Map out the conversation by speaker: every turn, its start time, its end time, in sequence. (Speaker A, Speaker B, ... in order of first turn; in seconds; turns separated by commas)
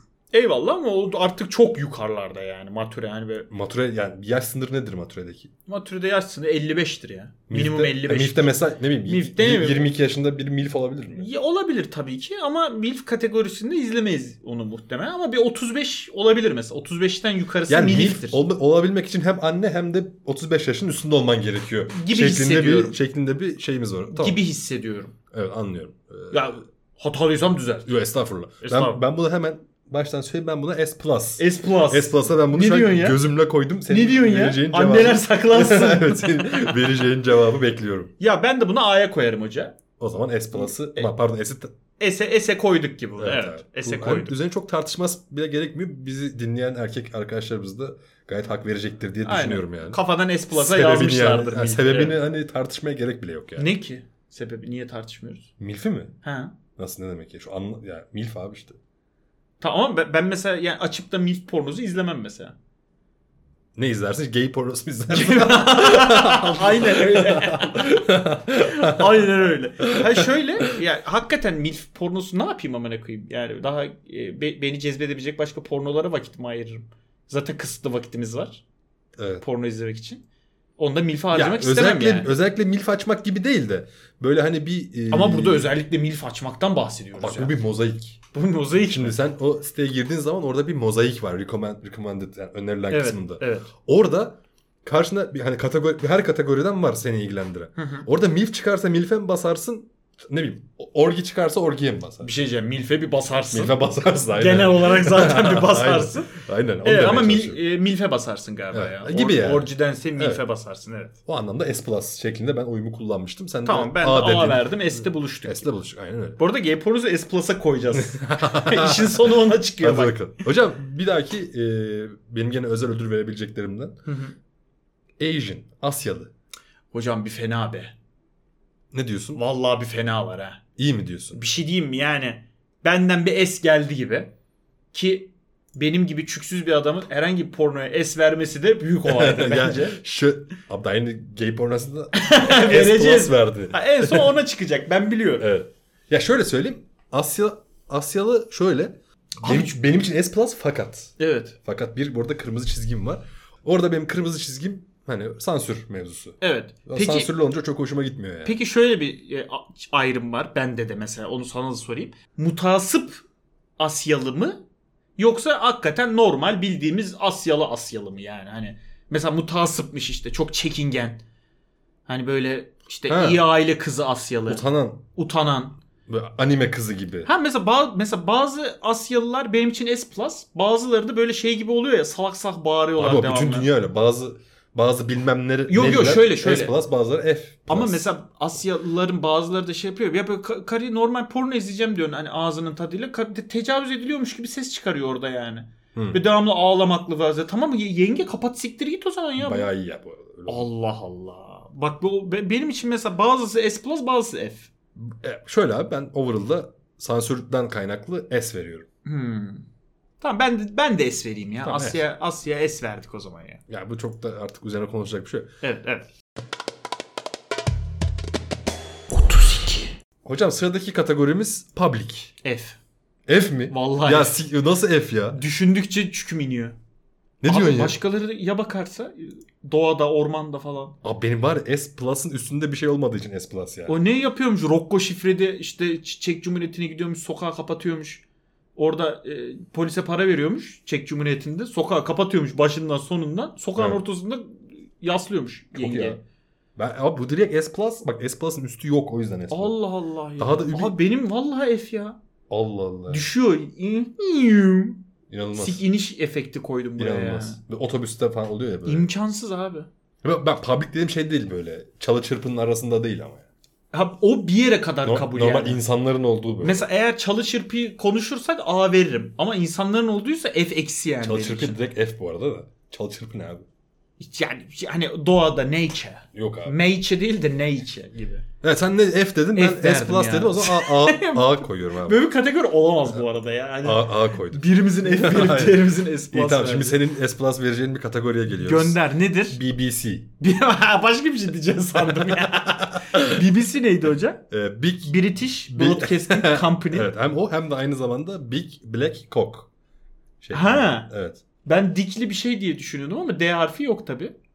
Speaker A: 0.3-3.5, Speaker B: 3.5-5.5, Speaker A: 5.7-9.9, Speaker B: 7.5-11.3, Speaker A: 11.1-18.4, Speaker B: 17.7-24.4, Speaker A: 21.9-23.0, Speaker A: 24.1-25.1, Speaker B: 25.3-26.4, Speaker A: 26.3-27.9, Speaker B: 27.9-38.1, Speaker A: 28.6-29.0, Speaker A: 31.4-33.2, Speaker A: 33.9-36.7, Speaker A: 38.2-39.8, Speaker B: 40.0-41.7, Speaker A: 40.5-41.1, Speaker A: 42.0-44.3, Speaker B: 43.2-53.7, Speaker A: 49.2-52.2, Speaker A: 53.6-55.5, Speaker B: 55.6-56.1, Speaker A: 56.2-56.5, Speaker B: 56.8-58.8, Speaker A: 59.6-62.5, Speaker B: 63.7-70.7, Speaker A: 65.1-68.0, Speaker A: 68.6-78.6, Speaker B: 79.2-79.4, Speaker A: 79.4-80.2, Speaker A: 80.8-82.3, Speaker B: 81.3-85.7, Speaker A: 85.1-87.6, Speaker B: 87.2-88.2, Speaker A: 88.3-89.2, Speaker B: 88.8-102.3, Speaker A: 92.9-93.7, Speaker A: 97.8-98.1, Speaker A: 102.2-111.1, Speaker B: 103.5-107.6, Speaker B: 108.7-110.4, Speaker B: 111.2-116.4, Speaker A: 113.6-115.7, Speaker A: 116.4-120.2, Speaker B: 117.9-124.0, Speaker A: 124.0-124.3, Speaker B: 125.2-126.3, Speaker A: 126.9-127.9, Speaker B: 128.9-129.4, Speaker A: 129.3-130.6, Speaker B: 130.8-131.4, Speaker A: 131.3-134.3, Speaker A: 134.9-140.0, Speaker B: 139.0-144.3, Speaker A: 142.1-145.5, Speaker B: 145.4-158.6, Speaker A: 149.4-149.7, Speaker A: 151.2-151.6, Speaker A: 156.4-157.3, Speaker A: 158.4-163.2, Speaker A: 163.8-164.6, Speaker A: 165.2-171.2, Speaker A: 172.1-175.8, Speaker B: 173.1-173.4, Speaker B: 174.5-175.0, Speaker B: 176.1-177.3, Speaker A: 177.2-183.7, Speaker B: 183.0-188.0, Speaker A: 185.7-186.7, Speaker A: 187.7-199.7, Speaker B: 195.9-196.2, Speaker B: 199.4-200.7, Speaker A: 200.5-204.7, Speaker B: 204.9-208.9, Speaker A: 209.0-209.6, Speaker A: 210.2-213.6, Speaker B: 211.6-212.0, Speaker B: 213.7-215.5, Speaker A: 215.6-216.1, Speaker A: 219.1-219.9, Speaker B: 220.2-222.3, Speaker A: 222.4-222.8, Speaker B: 223.3-225.4, Speaker A: 223.7-224.4, Speaker A: 225.3-226.8, Speaker B: 227.4-228.0, Speaker A: 227.4-230.9, Speaker B: 231.0-233.9, Speaker A: 233.9-238.2, Speaker A: 238.8-246.2, Speaker B: 245.7-246.2, Speaker B: 246.8-249.8, Speaker A: 249.5-252.2, Speaker B: 250.4-251.0, Speaker B: 252.5-253.3, Speaker A: 253.1-255.0, Speaker B: 255.3-255.8, Speaker A: 255.5-257.6, Speaker B: 257.0-259.1, Speaker A: 258.9-259.9, Speaker B: 260.2-263.4, Speaker A: 263.9-265.8, Speaker B: 265.0-266.9, Speaker A: 266.6-271.8, Speaker B: 271.2-273.6, Speaker A: 274.2-278.4, Speaker B: 276.3-276.8, Speaker B: 278.6-282.2, Speaker A: 279.5-287.0, Speaker B: 283.8-290.3, Speaker A: 288.6-289.6, Speaker A: 290.4-294.4, Speaker B: 292.0-293.4, Speaker B: 294.5-295.2, Speaker A: 295.0-297.1, Speaker B: 295.7-299.7, Speaker B: 300.4-301.4, Speaker A: 300.5-301.1, Speaker A: 301.6-304.3